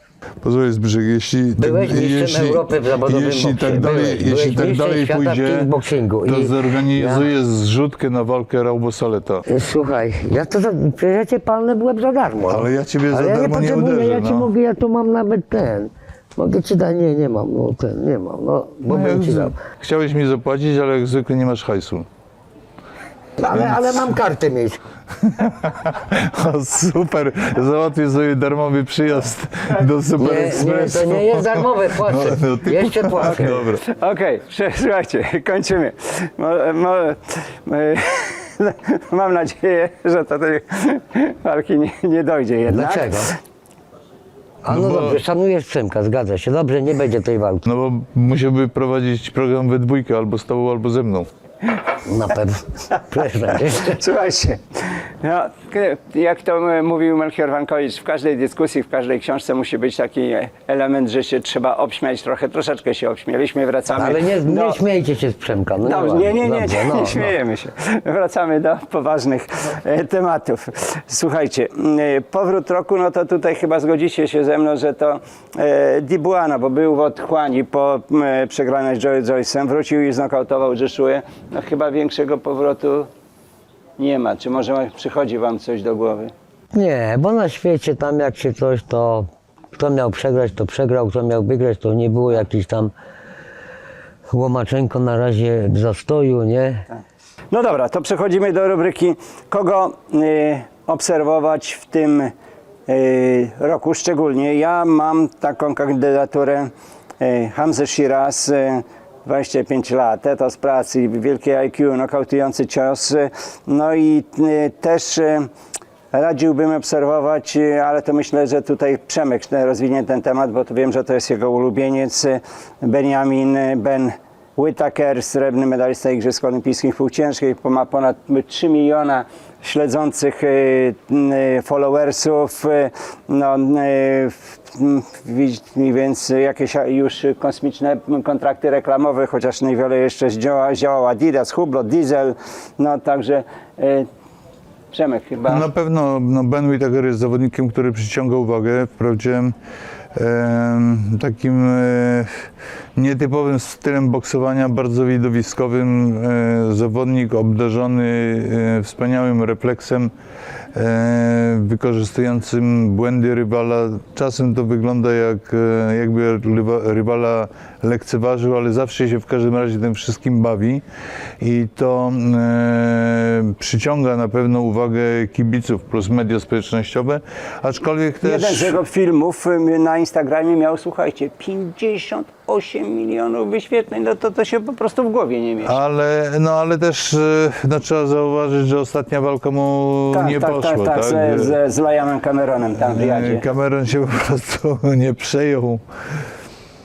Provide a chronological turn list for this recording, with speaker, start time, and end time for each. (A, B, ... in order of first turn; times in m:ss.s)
0:00.4-0:05.7 A
0:01.6-0:07.3 B
0:06.2-0:09.4 A
0:09.5-0:19.6 B
0:12.5-0:14.5 A
0:18.9-0:22.1 A
0:23.4-0:24.8 B
0:23.5-0:24.0 A
0:25.2-0:33.8 A
0:30.2-0:33.6 B
0:33.3-0:43.4 C
0:42.7-0:43.3 B
0:44.6-0:47.7 B
0:44.7-0:45.2 A
0:47.6-0:51.3 A
0:52.0-0:54.0 B
0:53.6-1:04.8 C
1:04.0-1:07.3 B
1:05.8-1:23.1 C
1:24.0-1:26.3 C
1:26.7-1:32.9 B
1:34.3-1:36.8 B
1:37.5-1:42.3 C
1:42.9-1:55.5 C
1:56.1-2:24.1 C
2:24.9-2:25.7 C
2:25.5-2:29.5 A
2:30.1-2:40.1 A
2:40.7-2:50.8 A
2:51.4-2:58.8 A
2:58.2-3:05.8 C
3:05.6-3:11.6 A
3:10.1-3:13.4 C
3:12.8-3:15.8 A